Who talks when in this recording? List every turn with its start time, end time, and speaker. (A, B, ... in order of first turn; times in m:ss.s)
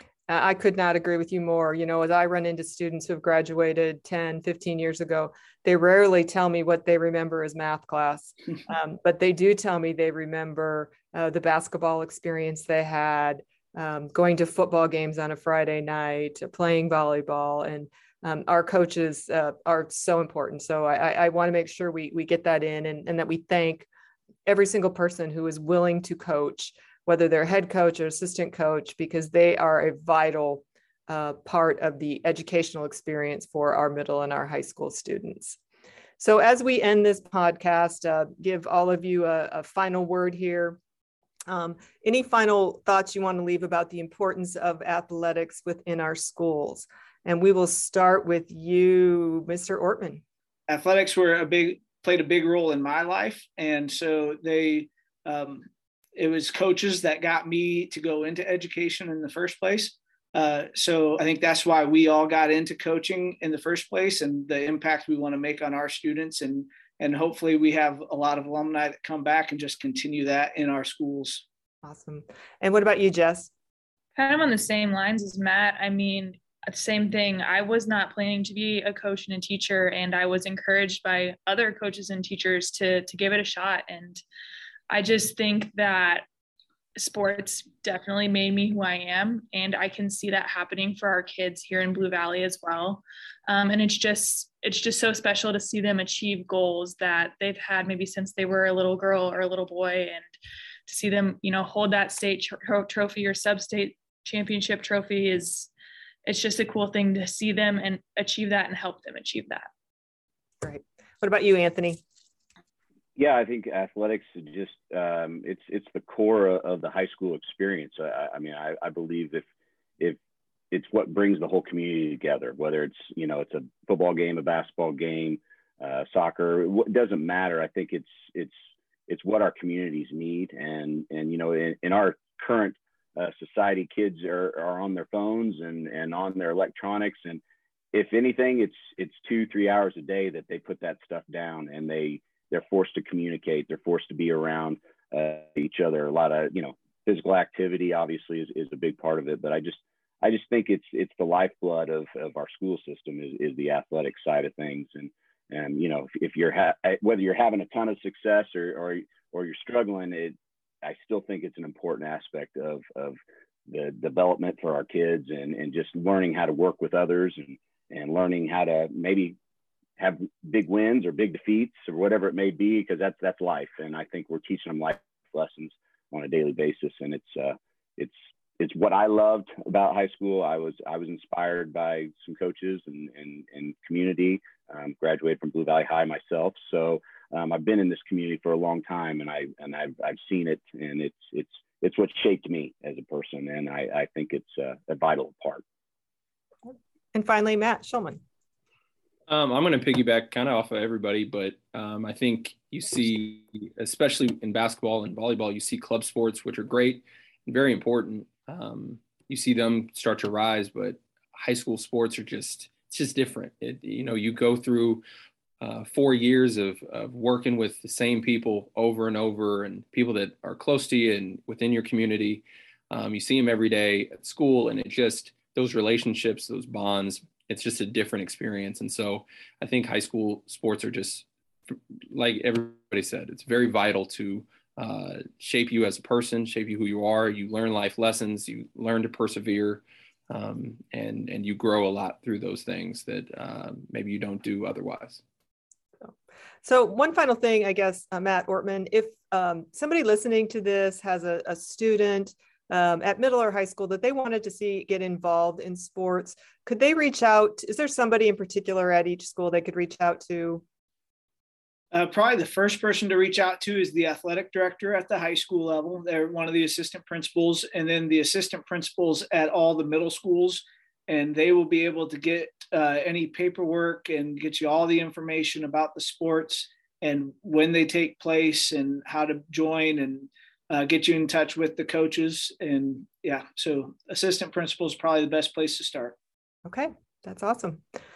0:00.3-0:23.9 A
0:24.5-0:35.6 A
0:36.2-0:40.8 A
0:41.5-0:50.2 A
0:50.7-1:11.4 B
1:11.8-1:13.5 A
1:14.2-1:24.2 C
1:24.9-1:26.2 C
1:27.0-1:40.2 C
1:40.9-1:45.7 C
1:46.2-1:49.7 C
1:50.6-1:52.0 A
1:53.2-1:59.4 D
2:00.7-2:08.5 D
2:09.1-2:17.4 D
2:17.9-2:49.4 D
2:50.0-3:15.6 D
3:16.7-3:18.2 A
3:19.3-3:35.0 E
3:35.6-4:05.2 E
4:06.0-4:20.6 A
4:21.9-4:46.2 B
4:46.7-4:47.8 A